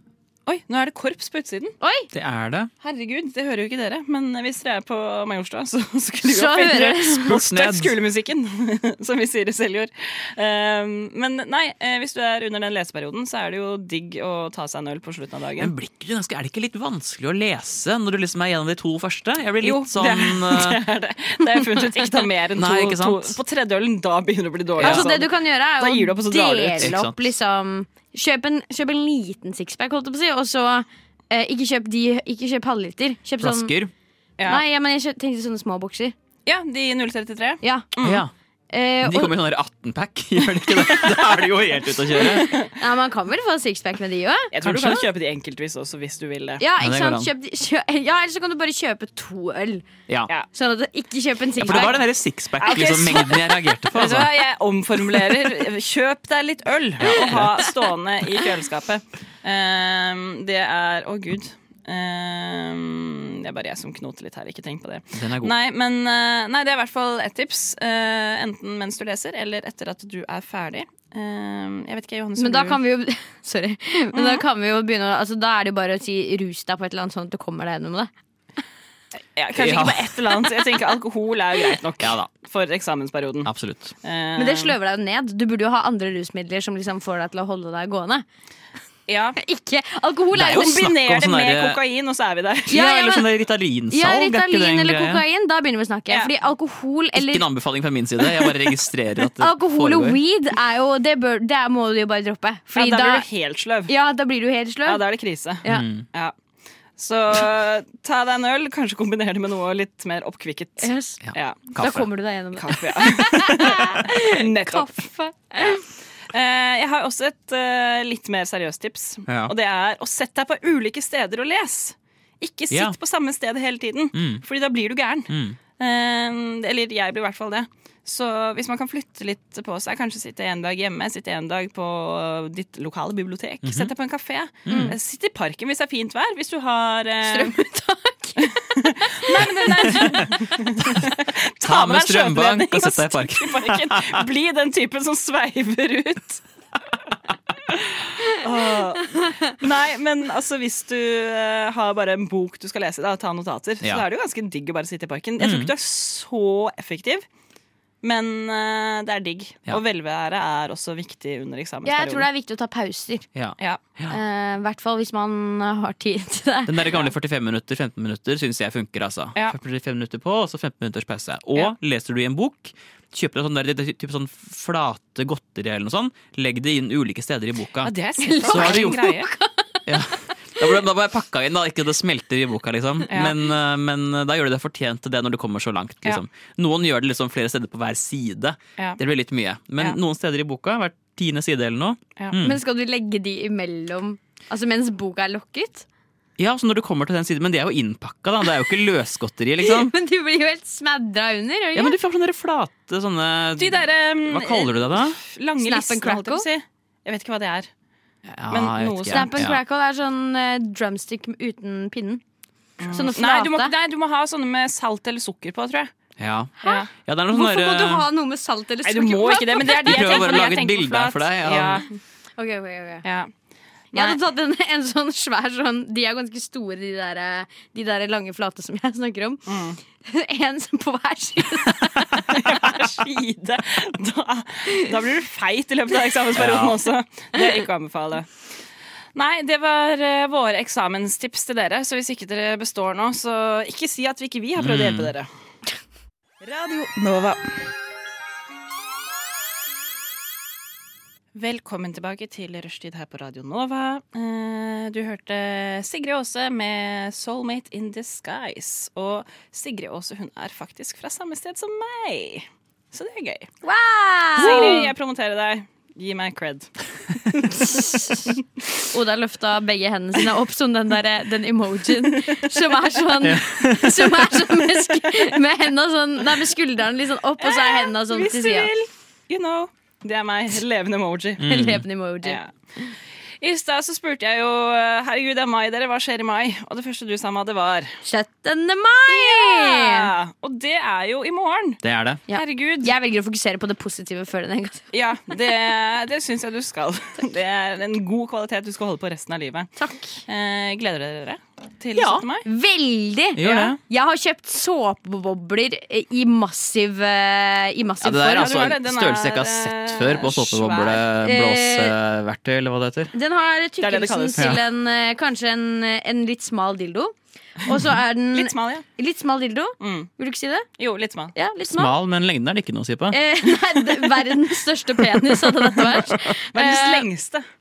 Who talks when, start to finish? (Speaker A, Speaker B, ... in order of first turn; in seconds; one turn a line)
Speaker A: 0.5-1.8
Speaker B: 1.8-2.1
Speaker C: 2.1-2.7
Speaker A: 2.8-15.7
Speaker B: 6.2-7.3
Speaker C: 7.3-8.0
Speaker C: 15.6-20.8
Speaker A: 19.6-26.9
Speaker C: 22.6-23.4
Speaker C: 24.8-25.1
Speaker B: 24.8-33.8
Speaker C: 26.8-27.3
Speaker C: 33.4-33.9
Speaker B: 34.5-36.1
Speaker A: 36.5-38.2
Speaker B: 37.6-37.9
Speaker C: 38.0-38.3
Speaker B: 38.7-39.3
Speaker C: 39.0-42.5
Speaker A: 42.1-42.7
Speaker B: 42.6-44.5
Speaker A: 44.5-46.6
Speaker C: 44.6-45.1
Speaker B: 46.6-49.9
Speaker C: 46.8-47.3
Speaker B: 50.5-52.0
Speaker C: 51.6-54.3
Speaker A: 52.6-72.8
Speaker C: 57.0-57.7
Speaker C: 65.1-65.5
Speaker B: 72.4-78.1
Speaker A: 74.1-74.4
Speaker A: 79.4-83.5
Speaker C: 79.5-80.1
Speaker C: 82.0-82.3
Speaker C: 83.5-83.9
Speaker A: 84.0-84.8
Speaker B: 84.4-88.2
Speaker A: 89.1-89.4
Speaker B: 89.4-90.8
Speaker C: 90.3-91.8
Speaker A: 90.5-92.9
Speaker C: 92.7-95.2
Speaker B: 92.7-93.2
Speaker B: 93.9-97.5
Speaker C: 97.2-100.2
Speaker B: 99.4-103.3
Speaker A: 102.7-103.9
Speaker B: 103.9-105.1
Speaker A: 104.9-106.3
Speaker C: 105.7-106.0
Speaker A: 107.0-111.7
Speaker B: 110.8-111.2
Speaker C: 111.2-112.1
Speaker B: 111.8-115.8
Speaker A: 112.6-115.0
Speaker A: 116.3-137.6
Speaker C: 119.3-119.5
Speaker C: 122.7-123.0
Speaker C: 124.1-124.4
Speaker C: 125.3-125.6
Speaker C: 133.6-133.9
Speaker C: 134.7-135.0
Speaker B: 134.7-134.9
Speaker B: 137.2-140.3
Speaker A: 138.4-146.4
Speaker C: 140.8-141.0
Speaker C: 141.6-144.2
Speaker A: 147.7-157.2
Speaker C: 155.4-155.7
Speaker A: 158.0-162.3
Speaker B: 161.8-163.3
Speaker C: 163.3-164.2
Speaker B: 164.1-167.0
Speaker C: 166.7-179.0
Speaker A: 177.8-179.3
Speaker B: 178.2-179.8
Speaker C: 179.9-192.6
Speaker A: 183.1-183.4
Speaker B: 192.4-195.9
Speaker C: 196.4-199.9
Speaker B: 199.6-202.0
Speaker C: 201.7-205.2
Speaker A: 203.6-207.7
Speaker B: 205.6-206.5
Speaker C: 208.2-209.6
Speaker A: 208.5-209.4
Speaker B: 209.1-212.2
Speaker A: 212.8-215.9
Speaker B: 212.9-213.7
Speaker C: 216.2-218.1
Speaker B: 216.6-220.2
Speaker A: 218.8-221.9
Speaker C: 219.8-221.8
Speaker B: 222.4-223.1
Speaker A: 223.0-223.3
Speaker A: 223.9-224.2
Speaker B: 223.9-232.3
Speaker A: 229.5-229.8
Speaker A: 232.3-238.3
Speaker C: 236.3-236.8
Speaker A: 239.2-245.3
Speaker C: 244.6-245.1
Speaker A: 246.4-247.4
Speaker A: 251.3-263.5
Speaker B: 263.6-264.9
Speaker A: 264.4-268.0
Speaker B: 267.5-268.3
Speaker B: 268.9-278.7
Speaker A: 272.0-272.6
Speaker C: 273.2-274.3
Speaker A: 277.4-281.5
Speaker C: 281.4-281.8
Speaker B: 281.4-282.9
Speaker A: 282.2-282.5
Speaker A: 283.4-288.0
Speaker B: 288.0-290.1
Speaker A: 289.1-292.9
Speaker C: 291.8-292.2
Speaker B: 292.3-294.9
Speaker A: 294.9-299.8
Speaker B: 299.8-300.2
Speaker A: 300.3-302.5
Speaker B: 302.0-308.6
Speaker C: 303.4-303.8
Speaker A: 303.4-303.8
Speaker C: 308.0-313.1
Speaker A: 308.3-311.0
Speaker B: 311.2-312.0
Speaker B: 313.1-320.7
Speaker A: 313.8-314.5
Speaker A: 318.3-318.9
Speaker A: 319.8-320.1
Speaker A: 320.8-321.4
Speaker B: 321.4-321.9
Speaker C: 321.7-323.2
Speaker B: 323.1-327.1
Speaker A: 326.5-327.5